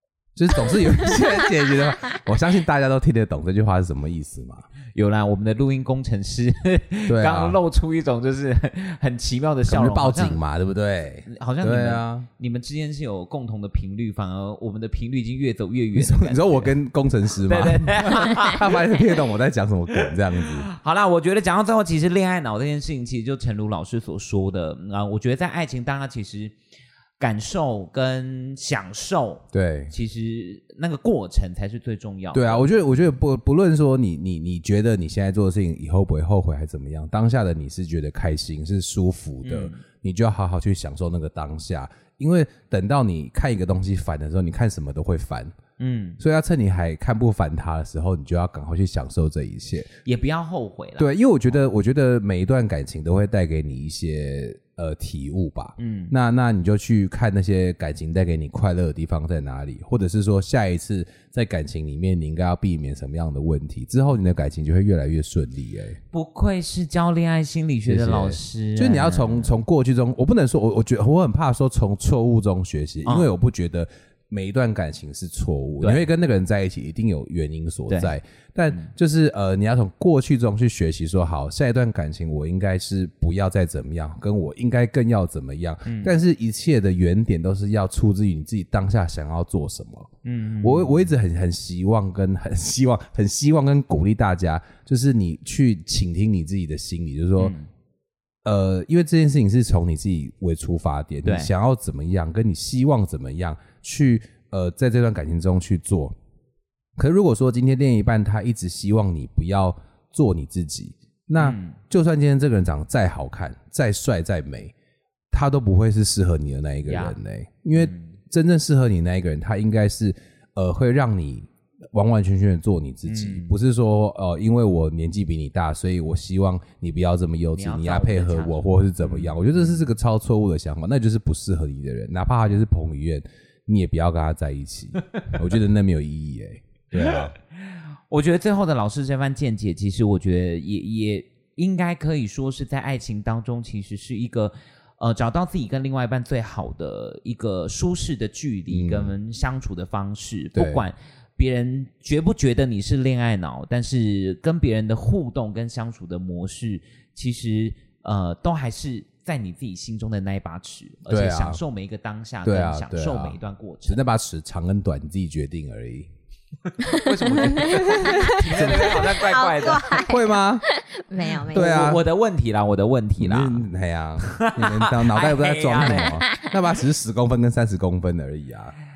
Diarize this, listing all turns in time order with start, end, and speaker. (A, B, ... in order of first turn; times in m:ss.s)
0:00.4-0:04.6 A
0:04.9-0:10.4 B
0:07.1-0:07.6 A
0:09.7-0:12.3 A
0:11.3-0:16.7 B
0:15.9-0:20.7 A
0:17.4-0:19.2 B
0:19.9-0:26.5 B
0:27.2-0:32.7 B
0:29.5-0:29.9 A
0:32.3-0:45.6 A
0:39.4-0:39.8 B
0:45.8-0:46.2 B
0:46.2-0:49.9 A
0:50.0-0:51.1 B
0:51.0-1:06.0 A
0:55.8-0:56.1 B
1:06.1-1:09.5 B
1:07.8-1:30.1 A
1:17.9-1:18.1 B
1:25.8-1:26.1 B
1:30.2-1:31.1 B
1:30.6-1:37.5 A
1:37.4-1:37.7 B
1:38.4-1:46.2 A
1:41.2-1:41.5 B
1:47.0-1:54.7 A
1:51.4-1:51.8 B
1:55.3-2:17.3 A
1:56.9-1:57.2 B
1:57.7-1:58.1 B
2:03.1-2:03.6 B
2:07.6-2:09.8 B
2:16.9-2:17.3 B
2:18.1-2:44.0 B
2:28.7-2:29.1 A
2:30.6-2:30.8 A
2:41.1-2:41.6 A
2:42.4-2:46.1 A
2:46.7-2:50.0 B
2:47.6-2:51.9 C
2:48.5-2:49.0 A
2:50.0-2:50.6 A
2:51.5-2:52.0 A
2:51.5-2:53.6 B
2:53.2-2:58.7 A
2:54.2-2:56.2 B
2:55.9-2:56.5 C